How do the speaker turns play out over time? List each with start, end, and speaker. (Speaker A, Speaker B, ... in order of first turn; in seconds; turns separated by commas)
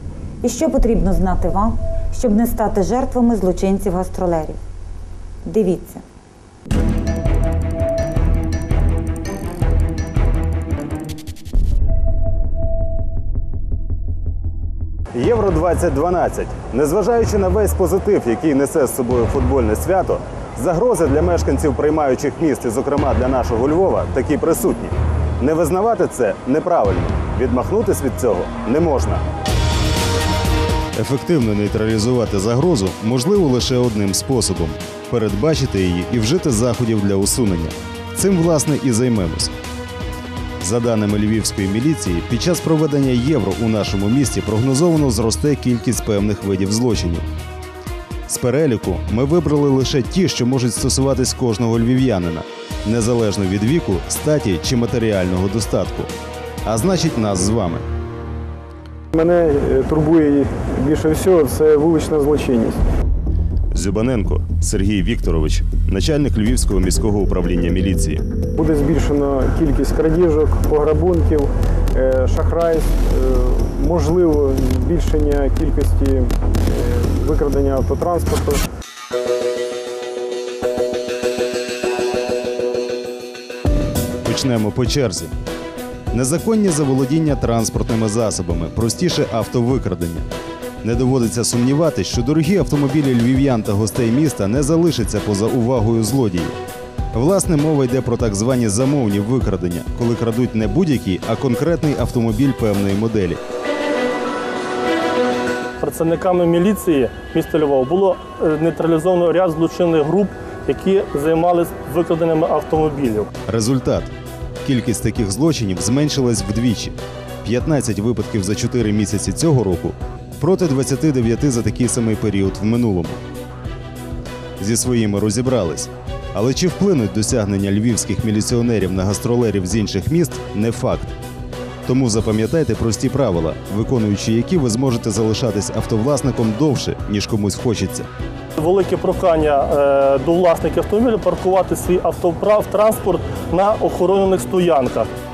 Speaker A: 0.4-4.6, Speaker A: 5.5-6.0, Speaker B: 15.1-29.2, Speaker B: 30.9-39.5, Speaker B: 40.6-47.3, Speaker B: 48.3-56.1, Speaker B: 56.6-57.9, Speaker C: 59.1-62.8, Speaker B: 63.7-68.2, Speaker C: 68.5-78.6, Speaker B: 84.2-85.3, Speaker B: 86.1-90.3, Speaker B: 90.8-96.5, Speaker B: 97.1-103.4, Speaker D: 105.8-113.3, Speaker B: 113.5-114.1, Speaker B: 114.6-123.2, Speaker B: 124.6-131.2, Speaker B: 131.8-138.1, Speaker D: 138.6-145.1